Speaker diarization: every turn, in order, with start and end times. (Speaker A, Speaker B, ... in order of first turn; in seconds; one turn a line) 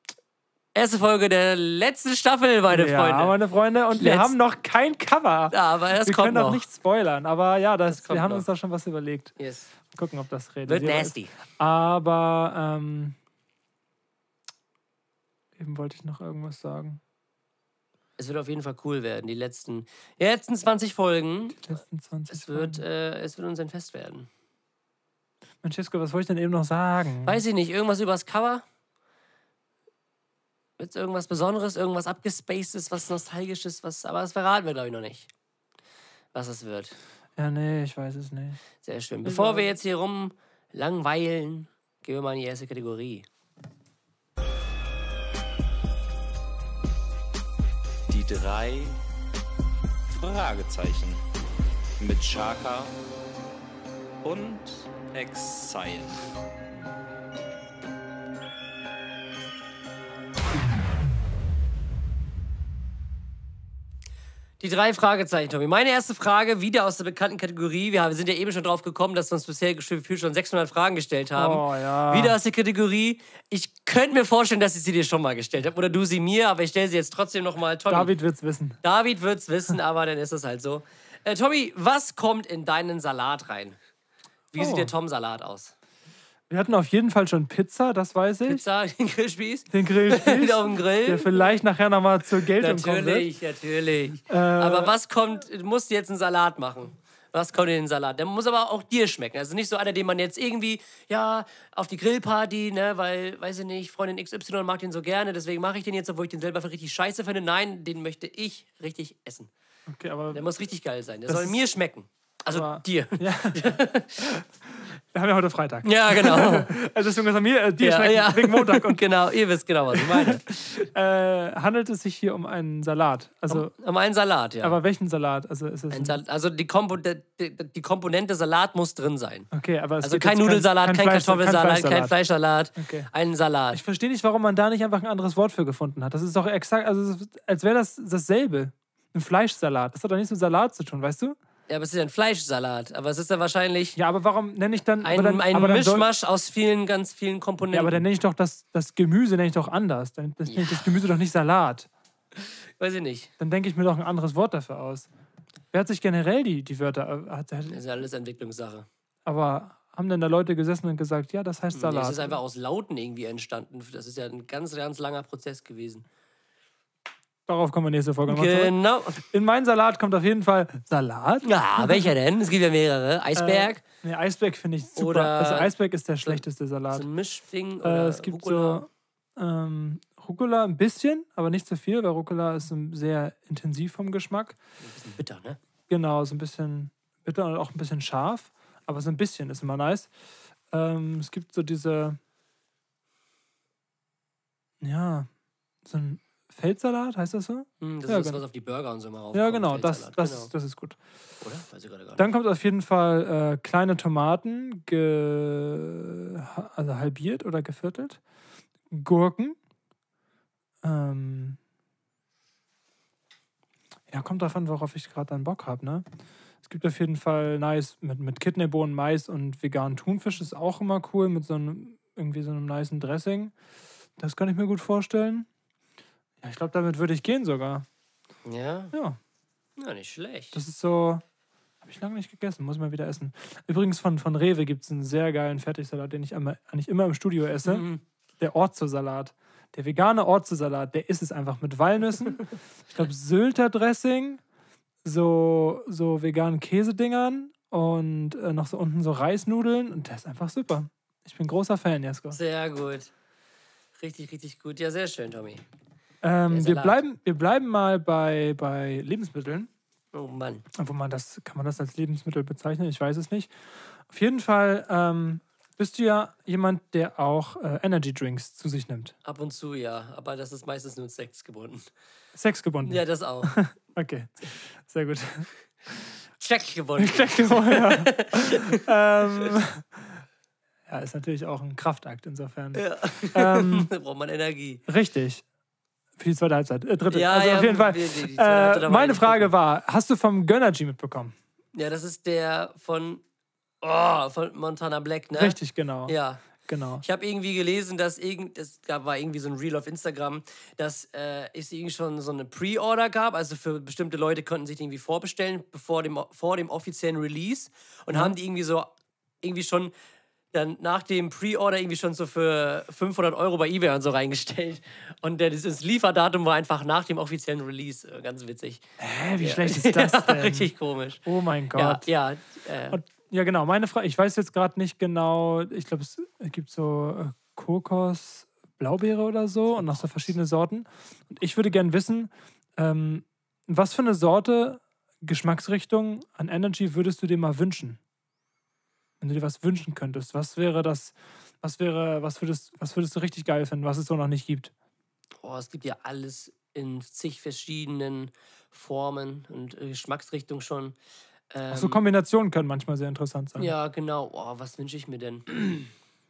Speaker A: 0.7-3.4
Speaker B: 2.7-9.4
Speaker A: 3.9-4.3
Speaker A: 5.5-6.7
Speaker A: 7.9-8.5
Speaker A: 9.4-9.7
Speaker B: 9.9-13.2
Speaker A: 10.7-11.3
Speaker B: 15.6-17.0
Speaker A: 18.2-21.6
Speaker B: 21.6-22.8
Speaker A: 22.3-24.3
Speaker B: 25.6-27.4
Speaker A: 27.2-28.6
Speaker A: 30.8-35.3
Speaker A: 36.3-37.0
Speaker B: 37.4-38.6
Speaker A: 38.8-43.3
Speaker B: 39.3-39.7
Speaker C: 48.1-49.0
Speaker C: 50.1-51.2
Speaker C: 52.0-53.0
Speaker C: 54.2-56.3
Speaker A: 64.6-78.1
Speaker B: 71.4-72.4
Speaker B: 77.9-78.8
Speaker A: 78.8-83.8
Speaker A: 84.5-85.7
Speaker B: 84.6-84.9
Speaker B: 86.5-88.6
Speaker A: 88.5-91.4
Speaker B: 89.7-93.3
Speaker A: 92.6-109.5
Speaker B: 94.3-95.0
Speaker B: 109.9-110.5
Speaker A: 110.3-114.3
Speaker B: 111.3-111.6
Speaker B: 112.5-114.5
Speaker B: 115.1-119.0
Speaker A: 115.8-116.8
Speaker A: 117.8-120.6
Speaker B: 119.9-123.7
Speaker A: 123.5-124.8
Speaker B: 124.6-126.2
Speaker A: 125.9-129.5
Speaker B: 129.5-132.1
Speaker A: 130.0-133.8
Speaker B: 132.8-133.1
Speaker B: 133.7-141.4
Speaker A: 141.7-144.0
Speaker B: 144.0-146.1
Speaker A: 145.0-148.0
Speaker B: 147.7-151.9
Speaker A: 150.5-151.0
Speaker A: 152.4-153.3
Speaker B: 153.4-155.1
Speaker B: 155.7-157.8
Speaker A: 157.7-158.9
Speaker B: 159.3-162.4
Speaker A: 161.7-166.1
Speaker B: 167.5-172.1
Speaker A: 168.3-169.2
Speaker A: 171.4-173.8
Speaker B: 173.3-177.1
Speaker A: 175.0-175.7
Speaker A: 176.2-178.9
Speaker B: 177.8-184.6
Speaker A: 184.8-185.6
Speaker B: 185.9-190.1
Speaker B: 190.7-192.2
Speaker B: 194.8-195.3
Speaker B: 195.8-198.4
Speaker A: 197.8-200.5
Speaker B: 199.3-201.0
Speaker A: 201.4-202.3
Speaker B: 202.2-208.2
Speaker B: 208.9-209.6
Speaker B: 210.8-211.6
Speaker B: 214.1-216.1
Speaker B: 216.6-223.5
Speaker B: 224.2-225.5
Speaker B: 226.4-227.9
Speaker A: 228.4-228.9
Speaker B: 228.9-229.2
Speaker A: 229.8-230.6
Speaker B: 230.5-231.2
Speaker B: 231.8-237.9
Speaker A: 237.6-238.0
Speaker B: 238.4-244.4
Speaker B: 245.0-252.4
Speaker A: 252.3-253.1
Speaker A: 254.0-255.6
Speaker B: 256.2-259.7
Speaker A: 256.5-257.0
Speaker A: 260.1-260.7
Speaker B: 260.8-263.5
Speaker B: 264.1-269.1
Speaker A: 269.2-271.9
Speaker B: 272.4-275.5
Speaker A: 272.8-273.6
Speaker A: 276.4-278.8
Speaker B: 277.0-279.9
Speaker B: 280.9-283.9
Speaker A: 282.8-284.8
Speaker B: 284.9-285.4
Speaker B: 286.2-291.3
Speaker A: 287.1-289.5
Speaker A: 291.7-293.2
Speaker A: 293.8-296.5
Speaker B: 295.4-297.0
Speaker A: 297.0-308.9
Speaker A: 309.4-309.9
Speaker A: 310.5-318.9
Speaker B: 319.0-320.7
Speaker A: 319.4-321.2
Speaker B: 321.2-322.1
Speaker A: 321.7-323.0
Speaker B: 322.9-338.0
Speaker A: 329.7-330.3
Speaker B: 339.2-344.7
Speaker A: 345.4-351.0
Speaker A: 351.5-352.0
Speaker B: 351.7-353.7
Speaker A: 353.6-355.9